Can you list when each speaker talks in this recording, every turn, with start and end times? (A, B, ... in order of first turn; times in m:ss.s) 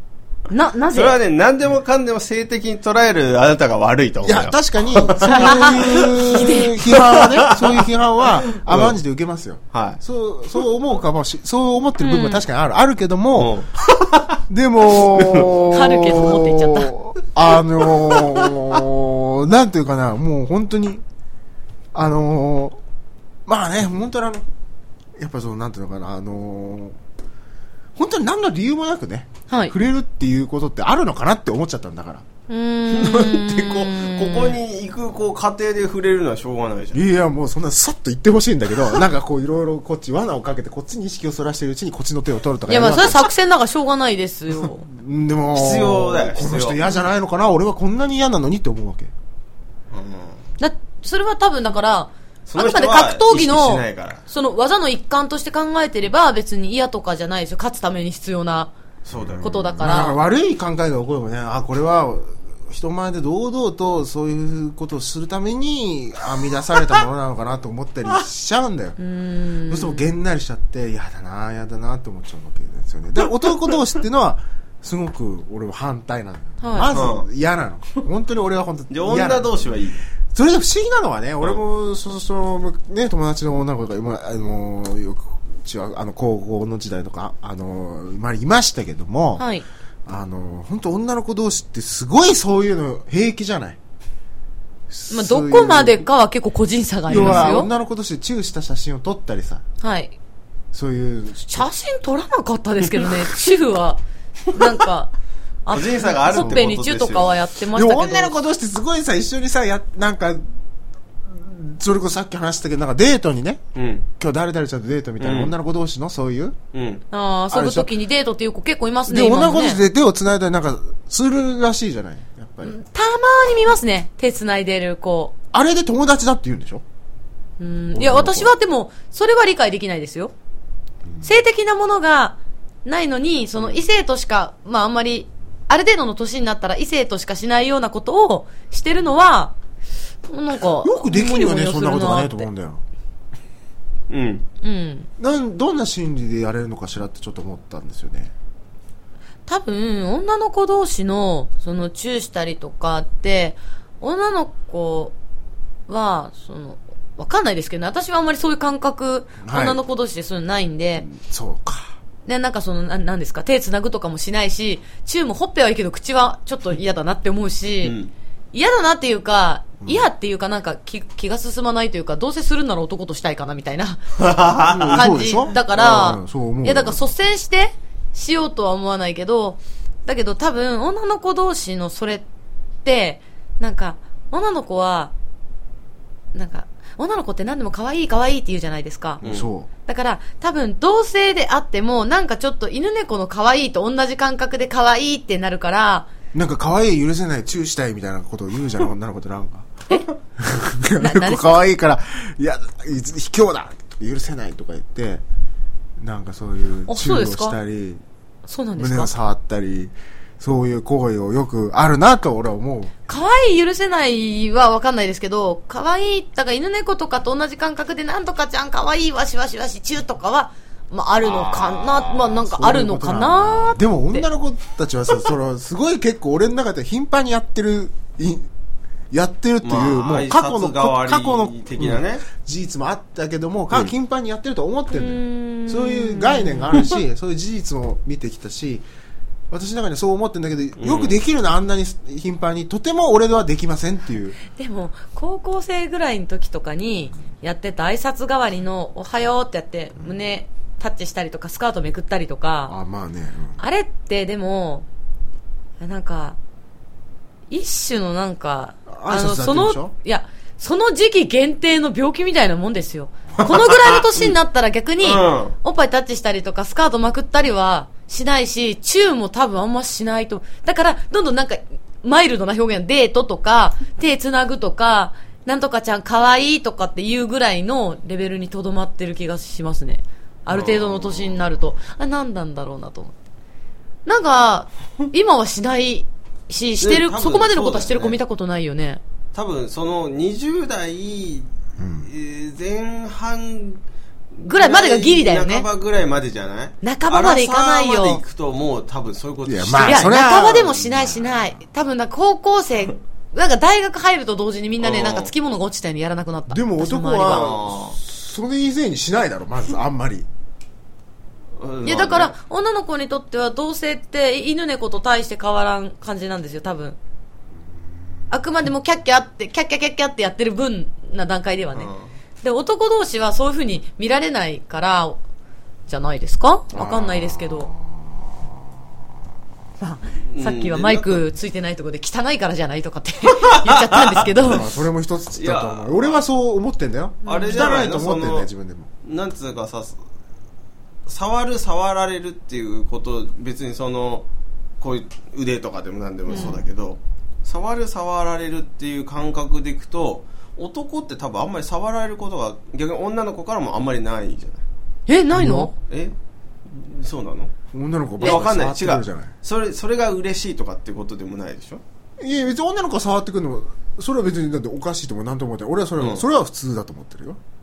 0:00.5-0:01.2 A
0:00.9-0:06.2 B
0:04.2-0:13.5 C
0:05.3-0:06.9 A
0:06.9-0:07.8 B
0:08.5-0:09.0 B
0:09.7-0:10.0 B
0:12.0-0:12.4 A
0:13.3-0:14.4 B
0:14.5-0:21.0 C
0:15.1-0:15.5 B
0:15.5-0:16.9 A
0:21.9-0:22.8 C
0:23.4-0:24.4 C
0:25.2-0:27.0 C
0:28.0-0:32.2 C
0:29.5-0:29.7 A
0:32.5-0:34.6 A
0:32.9-0:37.0 B
0:36.9-0:43.3 C
0:42.7-0:44.8 A
0:44.6-0:49.1 C
0:45.5-0:46.8 B
0:49.9-0:50.4 B
0:50.6-0:58.7 A
0:52.5-0:54.2 B
0:59.1-0:59.5 B
0:59.1-1:09.0 C
0:59.4-1:00.2 A
1:09.0-1:10.1 A
1:09.7-1:19.5 C
1:16.6-1:16.9 A
1:16.9-1:17.3 B
1:18.9-1:20.0 B
1:20.3-1:29.4 C
1:29.4-1:29.6 A
1:30.0-1:33.8 C
1:34.9-1:36.0 C
1:35.1-1:37.7 A
1:37.1-1:39.6 C
1:37.1-1:37.6 B
1:39.8-1:40.1 A
1:40.7-1:41.6 C
1:41.4-1:45.1 A
1:45.6-1:48.3 A
1:45.7-1:47.4 B
1:46.3-1:46.6 C
1:47.7-1:50.4 C
1:51.2-1:53.6 C
1:53.7-1:54.0 B
1:54.2-1:56.6 C
1:55.2-1:55.5 B
1:56.7-1:57.0 B
1:57.1-1:59.8 A
1:57.5-1:57.9 C
1:59.1-2:02.8 C
2:02.6-2:05.3 A
2:05.5-2:06.8 C
2:07.6-2:10.3 A
2:07.9-2:08.5 C
2:11.2-2:19.5 A
2:20.3-2:22.5 A
2:20.8-2:22.8 C
2:24.1-2:24.4 B
2:24.6-2:25.1 A
2:25.2-2:28.3 C
2:29.5-2:35.1 A
2:35.9-2:41.1 A
2:39.4-2:39.8 C
2:41.0-2:42.0 C
2:42.2-2:48.0 A
2:47.8-2:48.1 B
2:48.5-2:54.0 A
2:49.8-2:50.1 C
2:54.2-2:55.0 B
2:54.7-2:57.0 C
2:54.9-3:02.2 A
2:55.7-2:56.1 B
3:02.8-3:05.1 A
3:06.3-3:09.2 A
3:09.2-3:09.7 C
3:09.2-3:09.5 B
3:09.9-3:16.1 A
3:16.3-3:19.7 C
3:20.4-3:25.2 C
3:21.0-3:21.6 A
3:26.0-3:28.0 C
3:26.9-3:27.6 A
3:28.4-3:29.1 A
3:28.8-3:33.0 C
3:33.1-3:44.2 A
3:41.2-3:48.5 C
3:49.1-3:58.8 C
3:49.6-3:52.2 B
3:54.9-3:56.8 A
3:59.5-4:04.4 C
4:00.8-4:01.2 B
4:04.5-4:12.7 A
4:12.7-4:13.6 C
4:13.6-4:14.8 A
4:15.8-4:16.4 A
4:17.5-4:43.1 A
4:18.9-4:19.9 C
4:23.4-4:24.3 B
4:25.0-4:25.5 B
4:40.5-4:41.4 B
4:44.0-4:49.0 A
4:46.8-4:48.2 B
4:49.3-4:51.5 B
4:51.8-4:52.1 C
4:52.0-4:53.8 B
4:54.4-5:00.2 B
4:54.4-4:55.7 A
4:56.8-4:58.2 A
4:59.4-5:01.5 C
4:59.8-5:07.6 A
5:04.8-5:05.3 B
5:06.5-5:10.3 C
5:07.2-5:08.0 B
5:11.6-5:12.3 B
5:11.8-5:17.0 A
5:18.3-5:21.9 A
5:21.7-5:22.1 B
5:22.4-5:25.2 A
5:25.9-5:27.7 A
5:26.7-5:28.5 C
5:29.8-5:34.6 A
5:30.3-5:31.2 B
5:33.3-5:34.6 B
5:34.4-5:38.9 C
5:35.3-5:36.2 B
5:37.2-5:37.7 A
5:37.2-5:38.5 B
5:39.0-5:40.0 B
5:41.1-5:44.3 B
5:44.8-5:54.6 B
5:46.3-5:46.6 A
5:55.1-5:55.7 A
5:55.3-5:55.7 C
5:55.9-5:56.1 B
5:56.6-5:57.5 B
5:57.7-5:59.3 C
5:58.2-6:01.8 B
6:02.2-6:07.4 C
6:06.0-6:06.2 B